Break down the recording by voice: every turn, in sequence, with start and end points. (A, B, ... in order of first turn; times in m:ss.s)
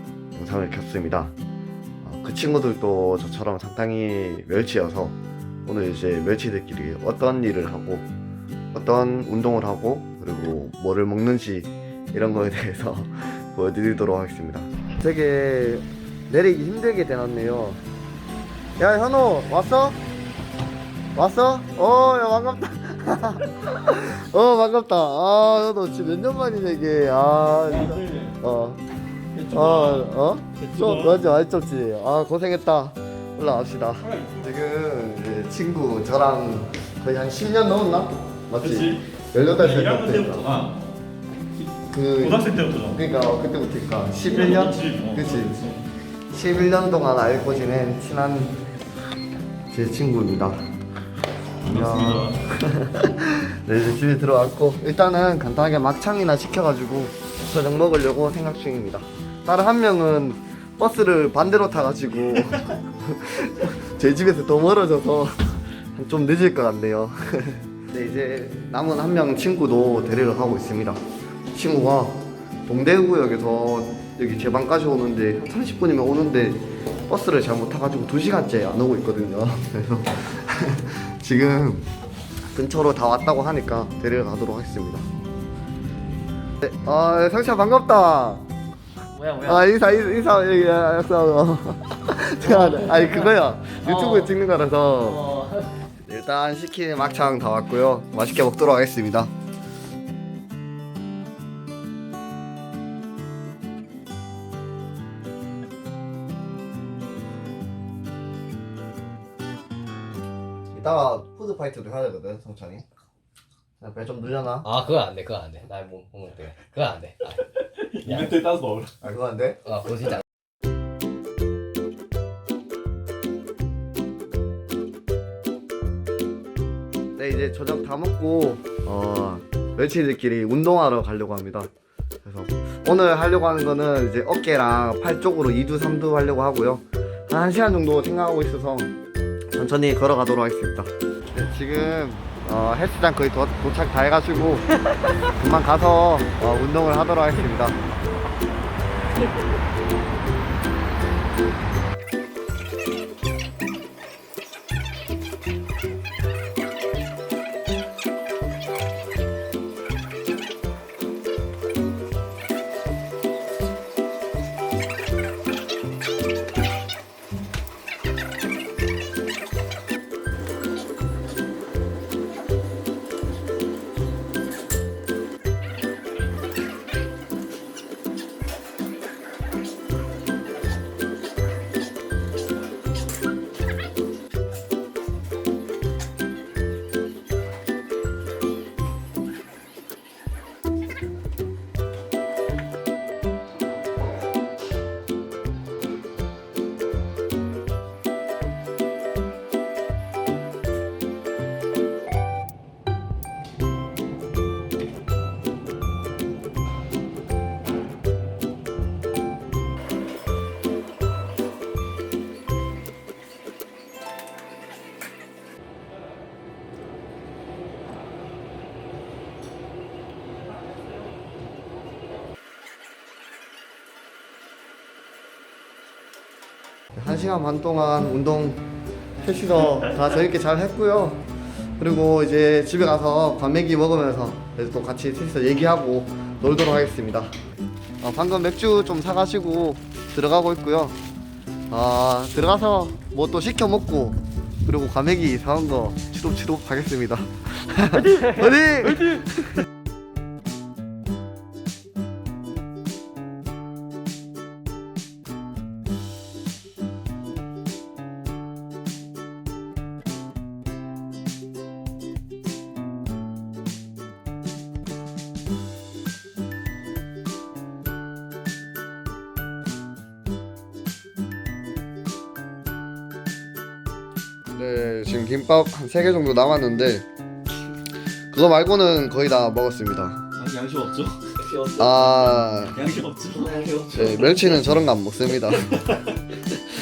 0:00.3-0:01.3 A
0:02.0-0:08.1 A
0:08.7-0:17.8 A
0:18.8-0:20.0 A
0:21.1-0:28.8 A
0:27.8-0:28.3 B
0:29.3-0:31.2 B
0:29.5-0:40.5 A
0:34.0-0:34.5 B
0:38.6-0:39.0 B
0:39.5-0:40.8 B
0:41.9-0:45.6 A
0:42.2-0:43.0 B
0:44.2-0:45.8 B
0:46.3-0:48.6 A
0:49.7-0:50.6 A
0:51.6-1:11.0 A
0:51.6-0:52.4 B
1:11.5-1:21.9 A
1:22.5-1:25.1 A
1:26.6-1:28.4 A
1:29.1-1:29.7 C
1:29.4-1:35.2 A
1:32.4-1:34.3 C
1:35.0-1:35.7 C
1:36.0-1:39.3 A
1:50.7-1:52.8 A
1:53.8-1:54.7 A
1:54.6-1:57.4 C
1:57.4-1:58.9 B
1:58.0-1:58.4 C
1:59.0-1:59.6 A
1:59.6-2:00.2 C
2:07.2-2:11.7 A
2:12.2-2:18.9 A
2:19.5-2:24.7 A
2:25.2-2:27.8 A
3:46.9-3:48.6 A
3:49.2-3:51.2 A
3:51.8-3:57.3 A
3:58.0-4:01.0 A
4:01.7-4:09.6 A
4:34.5-4:37.0 A
4:38.3-4:40.2 A
4:40.3-4:41.4 B
4:41.3-4:42.4 C
4:41.8-4:42.8 A
4:42.7-4:43.6 B
4:43.1-4:44.6 C
4:43.9-4:46.0 A